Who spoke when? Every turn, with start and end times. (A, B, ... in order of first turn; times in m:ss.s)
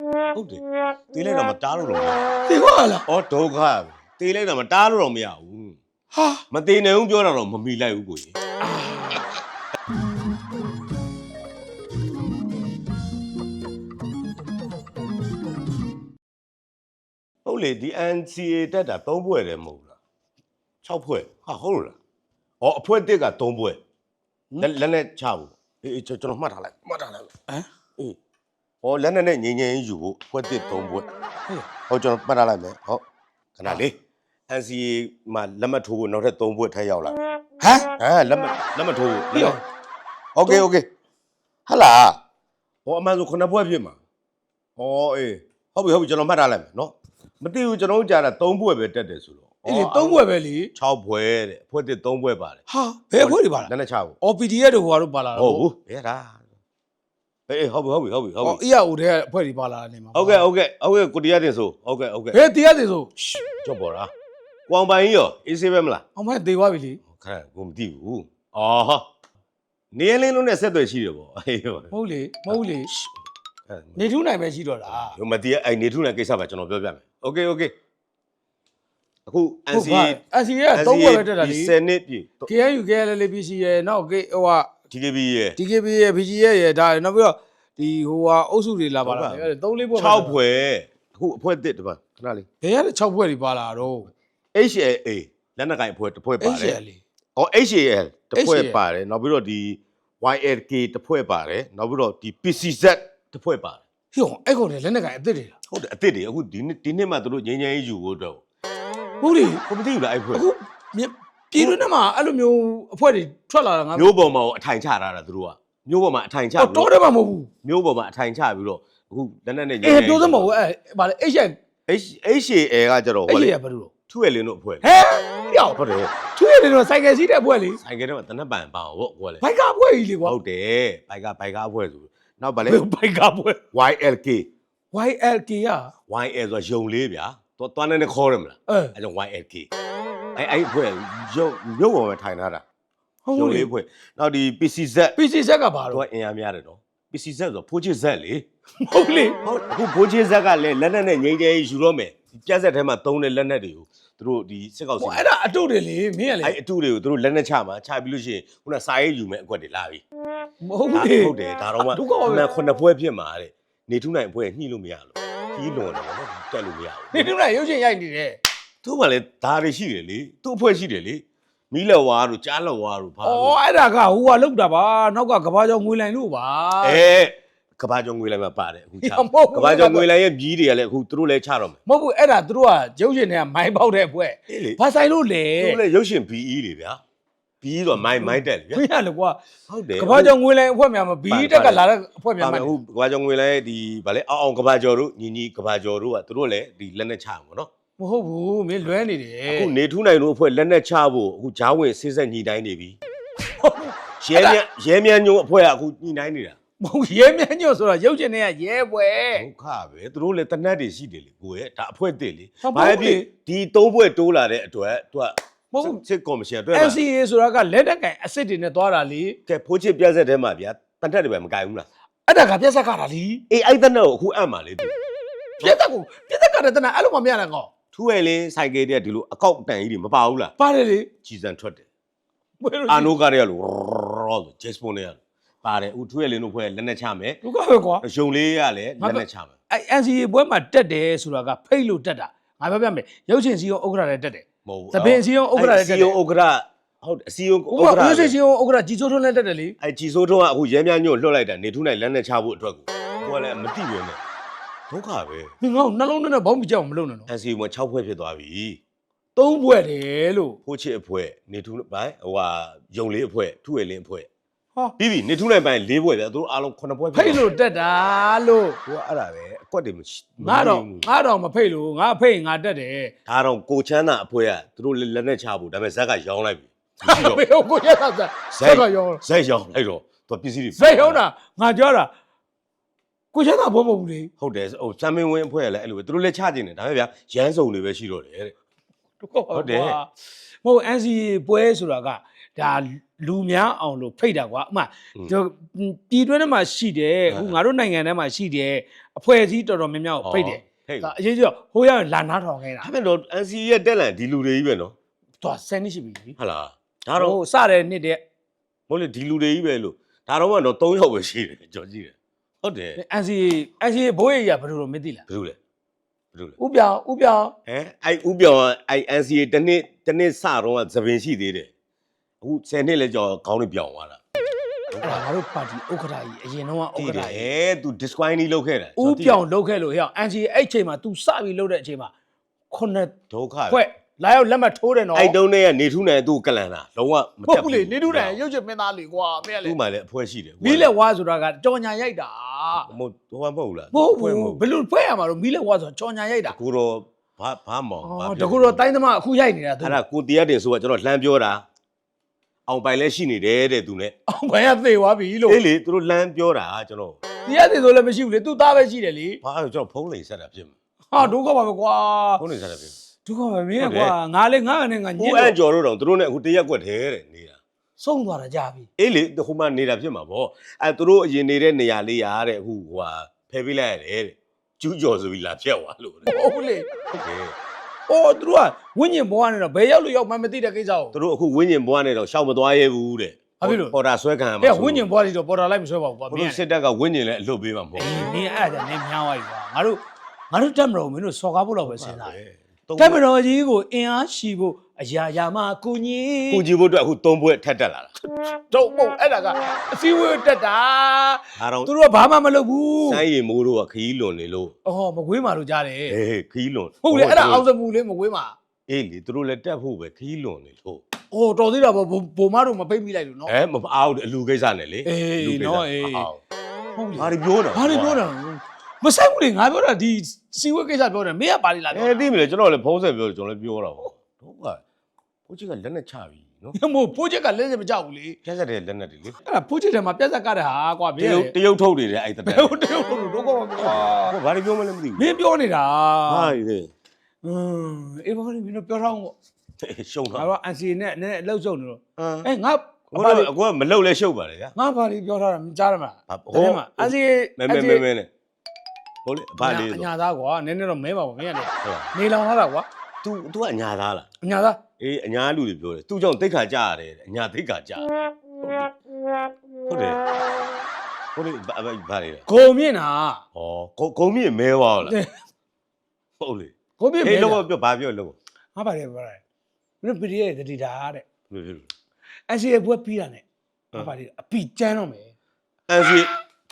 0:00.3-0:02.3 A
0:02.5-0:03.0 B
0:03.0-0:05.8 A
0:06.1-0:06.4 B
0:06.5-0:08.3 A
0:08.7-0:09.2 B
0:17.4-0:20.0 A
0:20.8-0:22.0 A
0:22.6-0:23.8 A
0:24.6-0:27.3 A
0:28.8-0:31.1 A
0:31.9-0:33.0 A
0:33.6-0:34.0 A
0:34.5-0:37.2 A
0:37.6-0:37.9 B
0:38.0-0:39.6 A
0:39.3-0:39.6 B
0:40.3-0:40.9 A
0:41.6-0:42.2 A
0:42.8-0:44.0 A
0:44.8-0:50.2 A
0:49.6-0:50.7 B
0:50.7-0:52.6 A
0:52.7-0:53.7 B
0:53.2-0:54.2 A
0:54.2-0:55.6 B
0:55.3-0:56.4 A
0:57.5-0:58.6 A
0:58.4-1:00.4 B
1:00.1-1:02.4 A
1:02.3-1:03.4 B
1:03.6-1:04.1 A
1:04.7-1:06.0 A
1:06.2-1:07.0 B
1:07.1-1:09.1 A
1:09.9-1:11.9 A
1:11.9-1:12.9 B
1:12.5-1:13.0 A
1:13.7-1:14.0 A
1:14.0-1:15.2 B
1:14.9-1:17.7 A
1:19.3-1:20.2 A
1:19.7-1:21.7 B
1:20.7-1:22.5 A
1:22.5-1:24.7 B
1:24.9-1:25.6 A
1:25.6-1:30.4 B
1:29.0-1:32.5 A
1:32.6-1:34.1 B
1:34.5-1:36.8 A
1:36.4-1:37.0 B
1:37.4-1:43.8 A
1:38.3-1:38.8 B
1:44.1-1:45.5 B
1:45.7-1:48.4 A
1:49.2-1:49.6 B
1:49.7-1:50.4 A
1:50.3-1:54.1 B
1:53.9-1:56.9 A
1:56.6-1:57.5 B
1:57.6-2:00.6 A
1:59.8-2:01.6 B
2:01.9-2:03.5 A
2:03.3-2:03.9 B
2:04.1-2:04.9 A
2:04.8-2:05.8 B
2:05.7-2:06.1 A
2:06.4-2:07.8 B
2:07.8-2:09.4 A
2:09.4-2:10.4 B
2:10.2-2:12.8 A
2:12.6-2:13.6 B
2:13.7-2:14.5 A
2:14.9-2:15.9 B
2:16.1-2:19.7 A
2:18.7-2:18.9 B
2:20.4-2:22.6 A
2:23.2-2:23.7 B
2:23.3-2:25.2 A
2:25.2-2:26.0 B
2:25.9-2:28.4 A
2:28.8-2:29.4 B
2:29.4-2:35.2 A
2:35.0-2:36.6 B
2:36.4-2:40.0 A
2:40.6-2:42.5 B
2:40.9-2:47.3 A
2:47.1-2:48.4 B
2:48.8-2:53.6 A
2:53.2-2:57.0 B
2:56.8-3:01.8 A
2:59.0-3:00.1 B
3:01.8-3:05.8 B
3:04.5-3:04.8 A
3:05.6-3:07.0 A
3:07.6-3:08.8 A
3:08.1-3:09.4 B
3:09.7-3:10.3 A
3:10.0-3:12.7 B
3:11.3-3:11.8 A
3:12.4-3:17.7 A
3:18.0-3:19.7 B
3:19.5-3:23.0 A
3:23.6-3:24.6 B
3:24.2-3:26.6 A
3:26.8-3:29.4 B
3:29.3-3:37.0 A
3:32.6-3:33.3 B
3:35.7-3:36.0 B
3:36.7-3:39.4 B
3:39.4-3:41.9 A
3:42.3-3:43.4 B
3:43.5-3:44.9 A
3:45.6-3:47.7 B
3:47.9-3:50.5 A
3:50.6-3:51.1 B
3:51.2-3:51.8 A
3:52.6-3:53.1 B
3:52.9-3:57.4 A
3:57.4-3:58.0 B
3:58.0-3:59.5 A
3:59.0-4:06.2 B
4:04.6-4:08.3 A
4:07.7-4:09.8 B
4:09.8-4:14.2 A
4:14.9-4:15.5 A
4:15.6-4:17.3 B
4:17.3-4:18.8 A
4:19.4-4:20.6 B
4:20.6-4:24.3 A
4:25.0-4:27.4 A
4:27.1-4:28.8 B
4:28.8-4:31.0 A
4:30.4-4:33.1 B
4:33.3-4:37.4 A
4:37.0-4:39.2 B
4:38.6-4:41.2 A
4:40.8-4:42.1 B
4:43.3-4:44.3 B
4:44.4-4:48.5 A
4:49.2-4:50.1 B
4:49.5-4:50.0 A
4:50.6-5:02.9 B
4:57.3-4:57.6 A
5:00.2-5:01.1 A
5:02.8-5:04.9 A
5:05.4-5:06.4 B
5:06.4-5:07.4 A
5:07.2-5:08.2 B
5:08.9-5:13.0 A
5:13.0-5:15.2 B
5:15.3-5:15.6 A
5:16.6-5:17.5 B
5:17.6-5:21.7 A
5:22.4-5:24.2 A
5:24.9-5:25.3 A
5:25.0-5:27.5 B
5:27.0-5:29.4 A
5:29.0-5:32.1 B
5:32.7-5:33.2 B
5:33.3-5:33.8 A
5:33.7-5:35.4 B
5:35.1-5:38.4 A
5:37.5-5:39.8 B
5:39.6-5:40.9 A
5:40.6-5:42.9 B
5:42.8-5:44.6 A
5:43.9-5:46.6 B
5:46.5-5:48.8 A
5:48.0-5:50.0 B
5:49.8-5:51.6 A
5:52.7-5:54.1 A
5:54.3-5:55.6 B
5:55.5-5:57.2 A
5:57.4-5:59.4 B
5:59.4-6:01.3 A
6:01.1-6:02.4 B
6:02.4-6:03.0 A
6:03.2-6:05.6 B
6:03.8-6:04.1 A
6:05.2-6:07.6 A
6:08.0-6:08.9 B
6:09.0-6:16.3 A
6:16.2-6:17.0 B
6:17.1-6:17.5 A
6:18.1-6:21.1 B
6:21.1-6:25.0 A
6:23.6-6:23.9 B
6:24.6-6:26.6 B
6:26.3-6:28.3 A
6:28.0-6:30.0 B
6:30.5-6:32.4 B
6:31.8-6:33.2 A
6:33.0-6:36.6 B
6:36.5-6:38.1 A
6:38.2-6:43.2 B
6:41.5-6:41.9 A
6:43.0-6:44.7 A
6:44.8-6:46.2 B
6:46.1-6:47.6 A
6:47.0-6:48.6 B
6:48.9-6:51.0 A
6:51.3-6:53.5 B
6:53.4-6:56.4 A
6:55.0-6:56.3 B
6:57.0-7:02.3 B
6:57.2-6:58.2 A
7:01.9-7:04.8 A
7:05.5-7:06.8 A
7:06.7-7:08.4 B
7:08.4-7:09.4 A
7:09.4-7:11.5 B
7:11.2-7:12.8 A
7:12.4-7:14.4 B
7:13.8-7:15.4 A
7:15.2-7:16.6 B
7:16.3-7:16.9 A
7:17.4-7:19.3 B
7:19.8-7:20.5 A
7:20.4-7:23.5 B
7:22.2-7:22.5 A
7:23.1-7:24.7 A
7:24.8-7:28.0 B
7:26.3-7:28.3 A
7:29.2-7:30.1 A
7:29.6-7:32.9 B
7:31.8-7:32.1 A
7:33.2-7:34.3 A
7:34.4-7:34.8 B
7:35.0-7:38.1 A
7:38.6-7:38.9 A
7:39.9-7:40.2 A
7:41.3-7:42.4 A
7:42.5-7:43.4 B
7:43.5-7:45.2 A
7:45.0-7:45.4 B
7:46.4-7:48.4 A
7:47.0-7:47.6 B
7:48.7-7:49.4 B
7:50.0-7:51.2 B
7:51.5-7:51.9 A
7:52.5-7:55.3 B
7:55.9-7:56.3 A